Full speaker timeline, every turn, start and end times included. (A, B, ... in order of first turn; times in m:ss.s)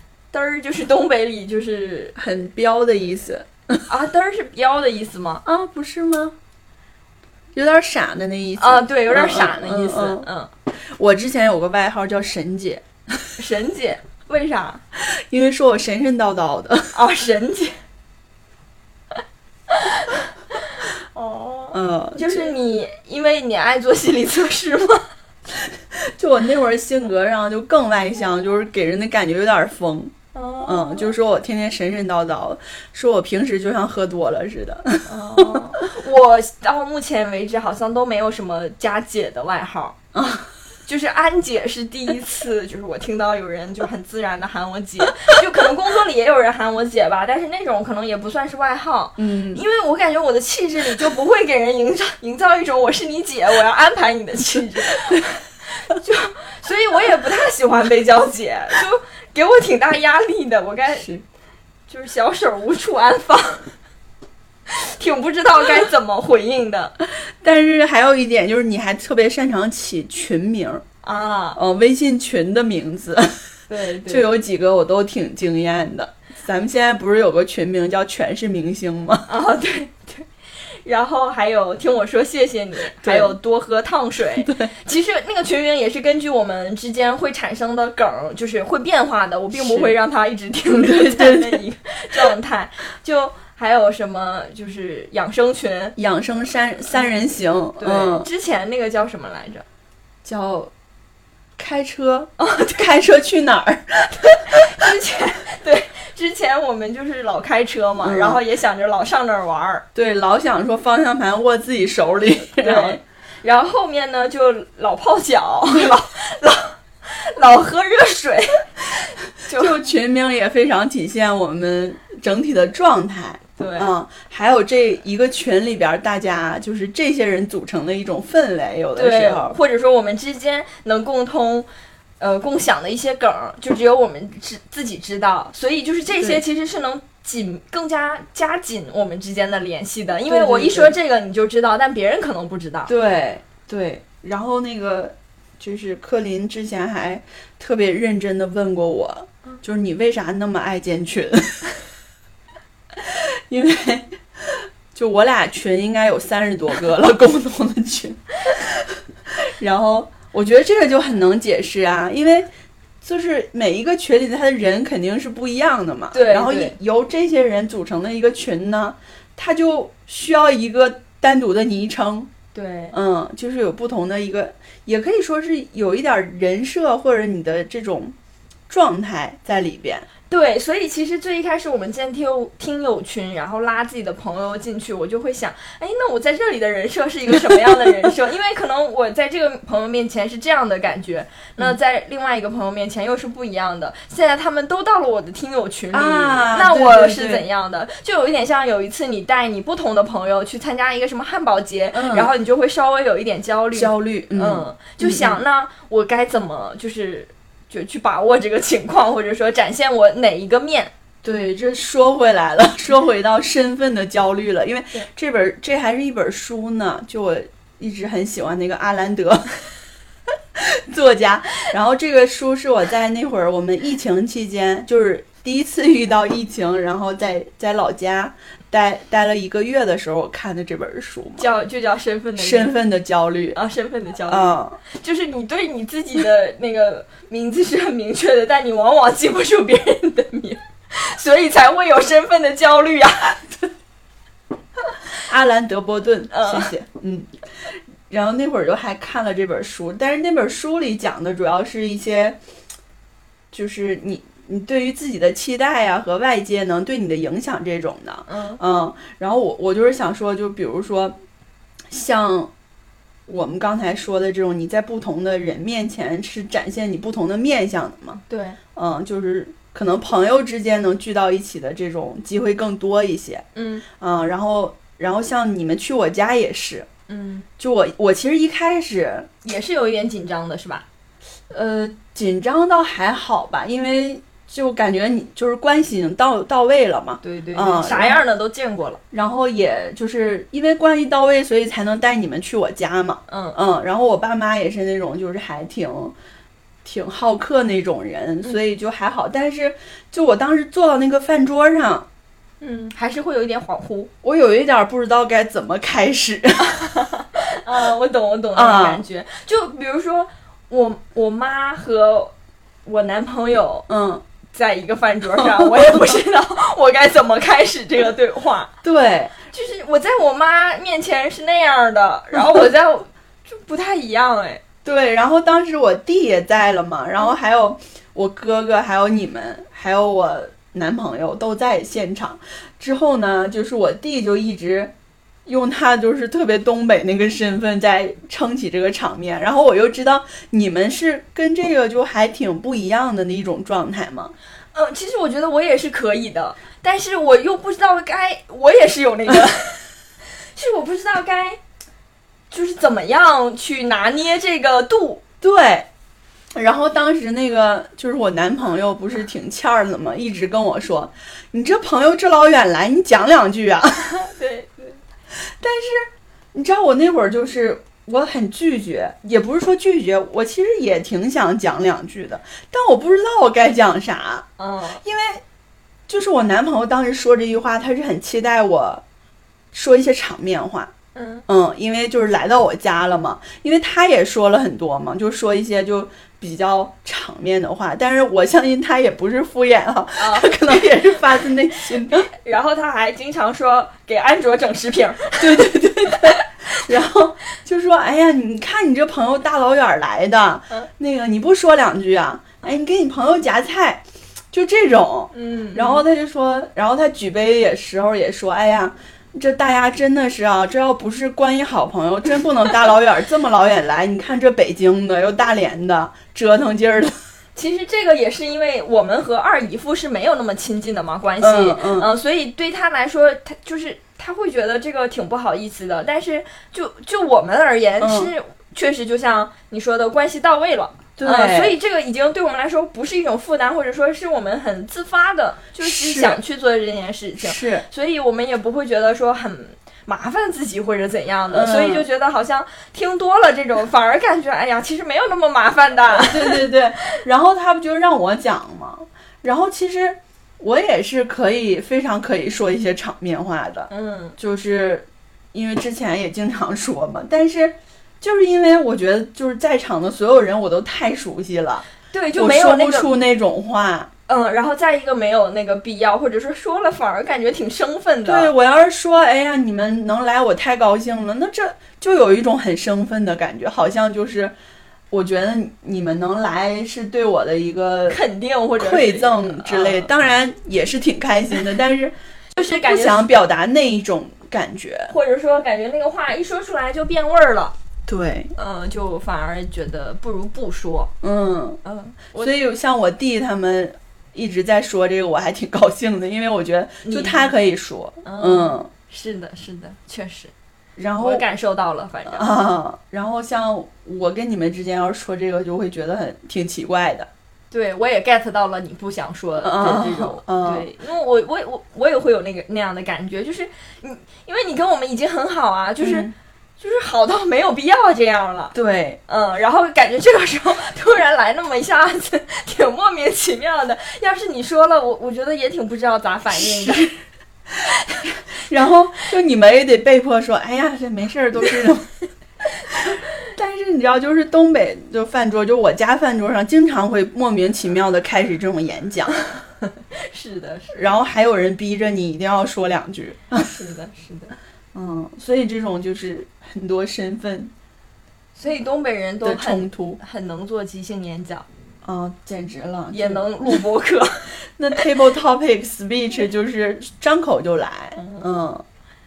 0:00.3-0:02.2 A
0:02.2-0:03.8 B
0:03.9-0:05.4 A
0:05.4-0:06.4 B
0:07.5-0:13.2 B
0:08.6-0:10.5 A
0:13.4-0:14.8 A
0:15.0-0:17.0 B
0:16.9-0:17.8 A
0:19.7-0:25.0 A
0:21.7-0:22.5 B
0:25.5-0:30.1 B
0:30.3-0:31.1 A
0:30.6-0:35.6 B
0:35.1-0:40.0 A
0:40.1-0:40.5 B
0:40.9-1:01.1 A
0:49.2-0:49.6 B
1:00.9-1:01.2 B
1:01.9-1:03.7 A
1:04.7-1:06.9 A
1:07.2-1:10.8 B
1:11.0-1:11.6 A
1:11.6-1:13.5 B
1:13.7-1:14.3 A
1:14.0-1:19.3 B
1:19.3-1:20.3 A
1:20.8-1:36.0 A
1:23.0-1:23.4 B
1:24.4-1:24.7 B
1:29.5-1:29.9 B
1:30.7-1:31.6 B
1:36.0-1:38.3 B
1:37.8-1:39.6 A
1:40.2-1:40.7 B
1:41.6-1:44.9 B
1:42.4-1:42.9 A
1:44.3-1:49.8 A
1:48.0-1:48.4 B
1:49.9-1:53.0 B
1:52.6-1:58.7 A
1:59.4-1:59.8 A
1:59.5-2:09.6 B
2:03.6-2:03.9 A
2:09.0-2:11.7 A
2:12.2-2:22.9 A
2:16.1-2:16.4 B
2:20.3-2:20.9 B
2:22.8-2:31.8 B
2:32.9-2:42.5 B
2:43.0-2:52.3 B
2:46.1-2:46.7 A
2:52.5-2:52.9 A
2:52.9-2:58.1 B
2:58.7-3:00.1 B
3:00.3-3:30.9 A
3:07.4-3:08.1 B
3:15.9-3:17.4 B
3:21.9-3:22.3 B
3:23.7-3:25.4 B
3:31.2-3:39.7 B
3:40.5-3:51.5 B
3:51.4-3:52.7 A
3:52.4-3:53.6 B
3:53.5-4:03.4 A
3:54.3-3:54.8 B
4:05.1-4:12.4 B
4:06.3-4:06.7 A
4:13.5-4:21.2 B
4:18.3-4:18.6 A
4:21.9-4:22.5 B
4:23.3-4:28.2 B
4:28.2-4:28.6 A
4:28.7-4:36.9 B
4:33.5-4:33.8 A
4:37.1-4:37.4 A
4:37.6-4:39.3 B
4:39.4-4:40.8 A
4:41.5-4:48.2 B
4:47.2-4:49.0 A
4:49.1-4:56.1 B
4:53.3-4:53.6 A
4:56.8-5:02.1 B
5:02.6-5:04.1 A
5:04.2-5:06.8 B
5:06.7-5:12.3 A
5:08.5-5:09.0 B
5:12.8-5:13.9 A
5:13.9-5:14.2 B
5:14.5-5:18.7 A
5:15.3-5:16.2 B
5:18.8-5:19.4 B
5:19.5-5:24.6 A
5:22.4-5:22.6 B
5:24.8-5:34.9 B
5:35.4-5:44.3 B
5:44.7-5:49.9 A
5:50.5-5:51.6 A
5:52.5-5:55.2 A
5:55.4-5:55.9 B
5:56.5-6:04.1 B
6:04.1-6:05.0 A
6:05.4-6:14.5 B
6:14.6-6:15.0 A
6:15.0-6:15.4 B
6:16.1-6:19.0 B
6:19.7-6:20.9 B
6:21.1-6:21.4 A
6:21.5-6:32.3 B
6:30.2-6:30.9 A
6:32.0-6:36.4 A
6:35.4-6:57.2 B
6:45.3-6:46.0 A
6:57.6-7:26.7 A
7:01.4-7:02.1 B
7:08.0-7:08.3 B
7:11.2-7:11.8 B
7:15.8-7:16.4 B
7:17.4-7:17.8 B
7:21.5-7:22.0 B
7:26.1-7:44.1 B
7:33.9-7:34.4 A
7:42.1-7:43.1 A
7:44.3-7:48.5 A
7:48.2-7:54.5 B
7:55.1-7:58.2 B
7:58.1-8:00.1 A
7:58.8-8:05.1 B
8:02.5-8:03.3 A
8:05.1-8:07.7 A
8:08.1-8:08.5 B
8:08.6-8:11.1 A
8:11.2-8:11.8 B
8:11.8-8:12.5 A
8:12.4-8:18.9 B
8:17.0-8:17.5 A
8:18.2-8:20.5 A
8:21.0-8:21.4 B
8:21.2-8:22.5 A
8:22.3-8:27.3 B
8:27.7-8:38.7 A
8:29.6-8:30.9 B
8:36.0-8:36.3 B
8:38.7-8:39.2 B
8:39.3-8:47.2 A
8:46.5-8:47.1 B
8:48.3-8:52.1 B
8:52.9-8:59.4 B
8:59.9-9:01.0 A
9:00.9-9:03.7 B
9:03.6-9:04.5 A
9:04.9-9:07.7 B
9:08.6-9:11.6 A
9:09.4-9:10.2 B
9:12.0-9:13.8 B
9:13.1-9:15.0 A
9:14.8-9:18.8 B
9:18.2-9:18.5 A